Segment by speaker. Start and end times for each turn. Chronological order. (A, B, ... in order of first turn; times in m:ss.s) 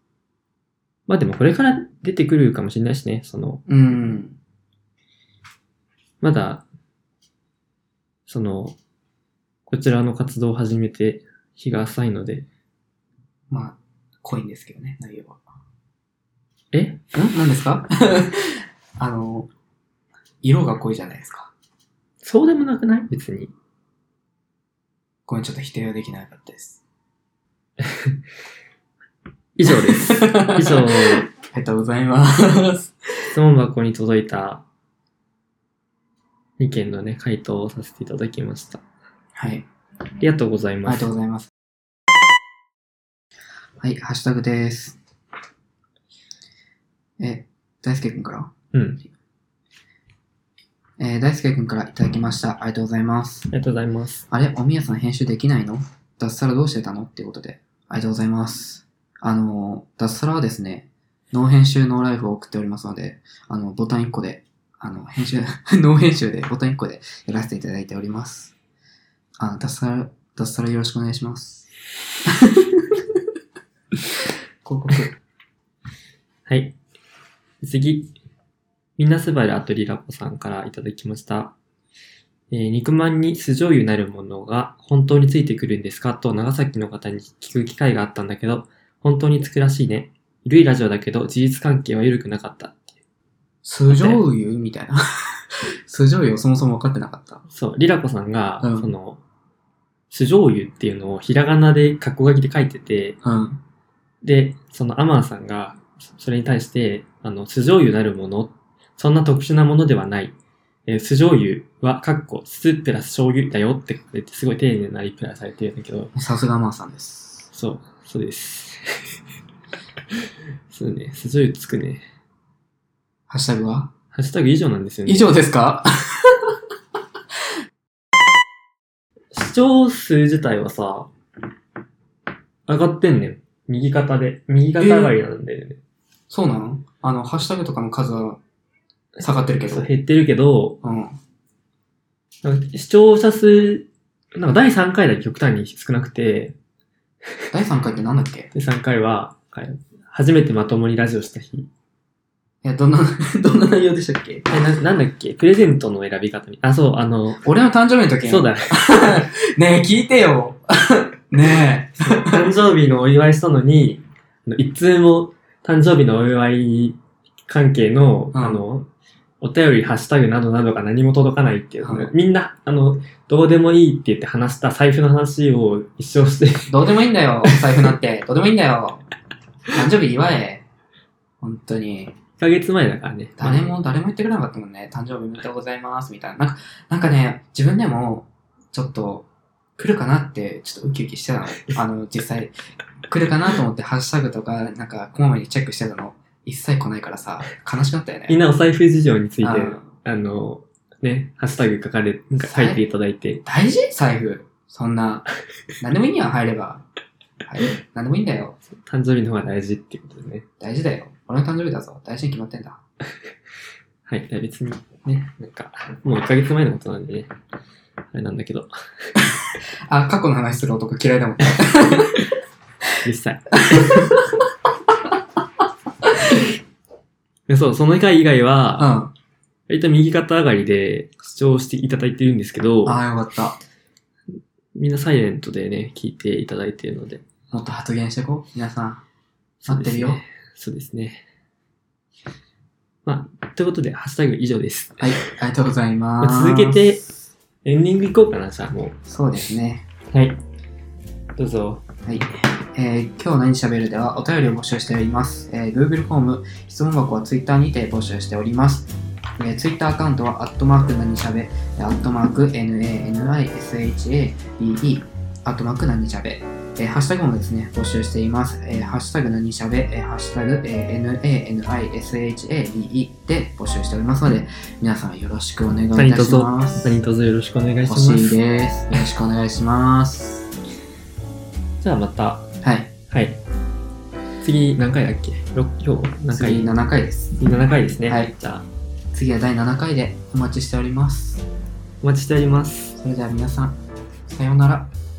0:01.1-0:03.6 A
0:03.7-0:04.4 B
0:06.2-0:06.6 A
0:08.3-0:08.8 A
0:09.7-0:12.5 A
0:13.5-0:15.4 B
0:16.7-0:17.0 A
0:17.1-0:19.5 B
0:20.4-0:21.5 B
0:22.2-0:23.5 A
0:25.3-0:26.8 B
0:27.8-0:28.2 A
0:29.6-0:31.3 A
0:29.7-0:32.9 B
0:33.3-0:34.6 A
0:36.6-0:38.8 A
0:39.4-0:39.7 B
0:40.2-0:41.1 A
0:40.8-0:41.5 B
0:43.8-0:45.0 B
0:47.2-0:48.5 B
0:48.7-0:49.0 A
0:51.0-0:53.5 B
0:53.5-0:54.3 A
0:54.3-1:08.6 B
1:09.4-1:11.7 B
1:12.3-1:13.0 B
1:14.6-1:15.2 B
1:16.5-1:16.8 A
1:17.6-1:18.2 A
1:19.0-1:21.6 A
1:22.5-1:33.0 A
1:33.6-1:37.4 B
1:33.9-1:34.2 A
1:37.5-1:39.2 A
1:38.6-1:38.9 B
1:40.1-1:43.2 A
1:43.2-1:43.6 B
1:44.2-1:50.4 A
1:50.9-1:56.1 A
1:56.2-1:57.5 B
1:57.5-1:59.2 A
2:00.1-2:02.0 A
2:03.3-2:03.9 B
2:04.1-2:05.4 A
2:05.1-2:06.4 B
2:09.3-2:11.1 A
2:12.7-2:15.8 A
2:14.8-2:15.1 B
2:16.3-2:18.4 B
2:19.2-2:20.8 A
2:19.2-2:19.9 B
2:20.8-2:21.2 B
2:22.4-2:26.6 A
2:27.5-2:28.5 B
2:28.5-2:31.7 A
2:32.6-2:34.6 B
2:34.5-2:37.4 A
2:37.4-2:42.5 B
2:38.2-2:39.2 A
2:42.0-2:48.9 A
2:48.3-2:48.6 B
2:49.4-2:56.8 A
2:51.8-2:52.1 B
2:56.7-2:59.1 B
2:59.7-3:00.6 B
3:01.4-3:02.2 B
3:02.4-3:03.8 A
3:03.4-3:12.5 B
3:13.1-3:18.4 B
3:18.3-3:23.4 A
3:19.4-3:19.9 B
3:22.4-3:22.8 B
3:23.4-3:25.3 B
3:25.8-3:26.8 B
3:27.4-3:28.6 B
3:28.7-3:30.5 A
3:30.6-3:32.8 B
3:34.1-3:37.3 A
3:38.1-3:39.1 A
3:39.9-3:42.3 B
3:43.0-3:44.2 A
3:43.6-3:44.3 B
3:47.5-3:48.9 A
3:48.8-3:49.1 B
3:49.7-3:53.0 A
3:52.8-3:53.6 B
3:54.8-3:57.2 A
3:57.5-3:59.0 B
3:59.6-4:01.2 A
3:59.7-4:00.2 B
4:03.0-4:05.2 A
4:05.0-4:06.8 B
4:06.2-4:07.0 A
4:07.6-4:09.0 A
4:09.1-4:09.8 B
4:10.1-4:10.4 A
4:11.4-4:11.8 A
4:12.1-4:37.0 B
4:36.0-4:38.4 A
4:37.8-4:40.5 B
4:41.8-4:42.5 A
4:42.6-4:42.9 B
4:43.1-4:43.4 A
4:44.4-4:46.7 A
4:46.3-4:47.4 B
4:47.4-4:48.7 A
4:48.1-4:48.3 B
4:49.1-4:51.4 B
4:52.0-4:53.0 A
4:53.0-4:54.9 B